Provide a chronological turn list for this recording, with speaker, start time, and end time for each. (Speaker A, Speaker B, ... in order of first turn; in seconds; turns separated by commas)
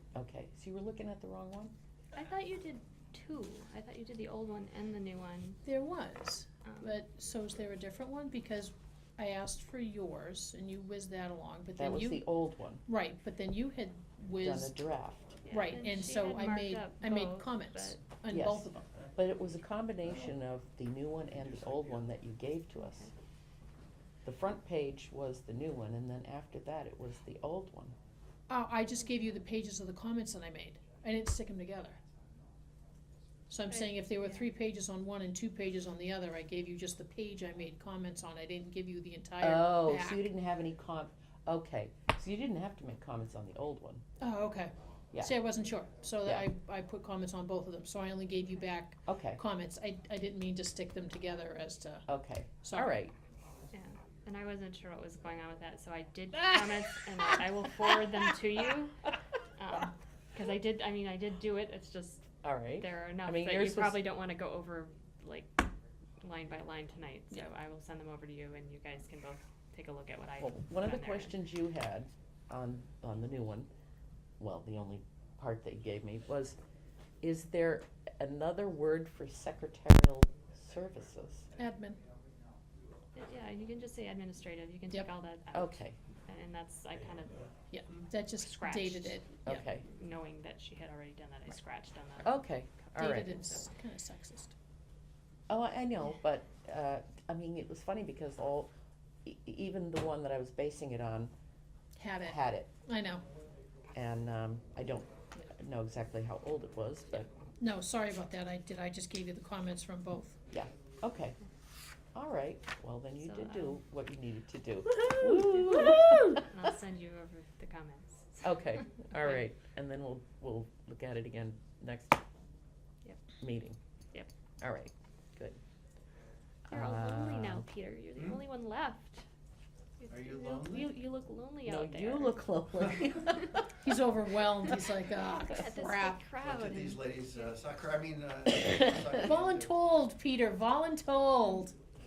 Speaker A: 0.1-1.7, Speaker B: 2.1-5.6, Speaker C: 5.7-12.3, Speaker B: 6.7-6.9, Speaker A: 11.8-12.8, Speaker C: 12.8-14.8, Speaker A: 14.4-15.4, Speaker B: 15.4-18.0, Speaker C: 15.5-18.8, Speaker A: 18.3-23.1, Speaker B: 22.8-23.1, Speaker A: 24.2-27.9, Speaker C: 28.5-32.0, Speaker C: 33.5-40.2, Speaker A: 39.4-44.0, Speaker C: 44.2-52.1, Speaker A: 49.1-49.4, Speaker A: 52.1-53.1, Speaker C: 52.6-52.9, Speaker B: 53.7-65.6, Speaker A: 62.4-64.0, Speaker B: 66.2-71.3, Speaker A: 70.4-73.7, Speaker A: 74.4-76.6, Speaker A: 77.2-81.5, Speaker C: 81.6-82.0, Speaker B: 83.2-87.5, Speaker A: 85.5-86.0, Speaker C: 87.7-89.7, Speaker B: 88.4-93.7, Speaker A: 89.5-89.8, Speaker A: 92.2-93.4, Speaker C: 93.0-94.5, Speaker A: 95.5-98.7, Speaker A: 99.2-101.3, Speaker C: 102.0-103.2, Speaker A: 102.2-102.7, Speaker A: 103.9-107.3, Speaker C: 107.6-110.4, Speaker A: 110.5-111.4, Speaker A: 112.2-116.5, Speaker B: 113.2-113.8, Speaker B: 115.4-119.4, Speaker A: 118.4-122.2, Speaker A: 123.4-123.8, Speaker A: 124.6-125.6, Speaker A: 126.7-127.7, Speaker B: 126.7-129.2, Speaker D: 128.2-128.4, Speaker B: 130.0-132.4, Speaker D: 130.1-130.9, Speaker A: 131.6-133.9, Speaker C: 133.8-136.2, Speaker B: 135.3-137.4, Speaker D: 136.4-139.8, Speaker C: 139.2-141.7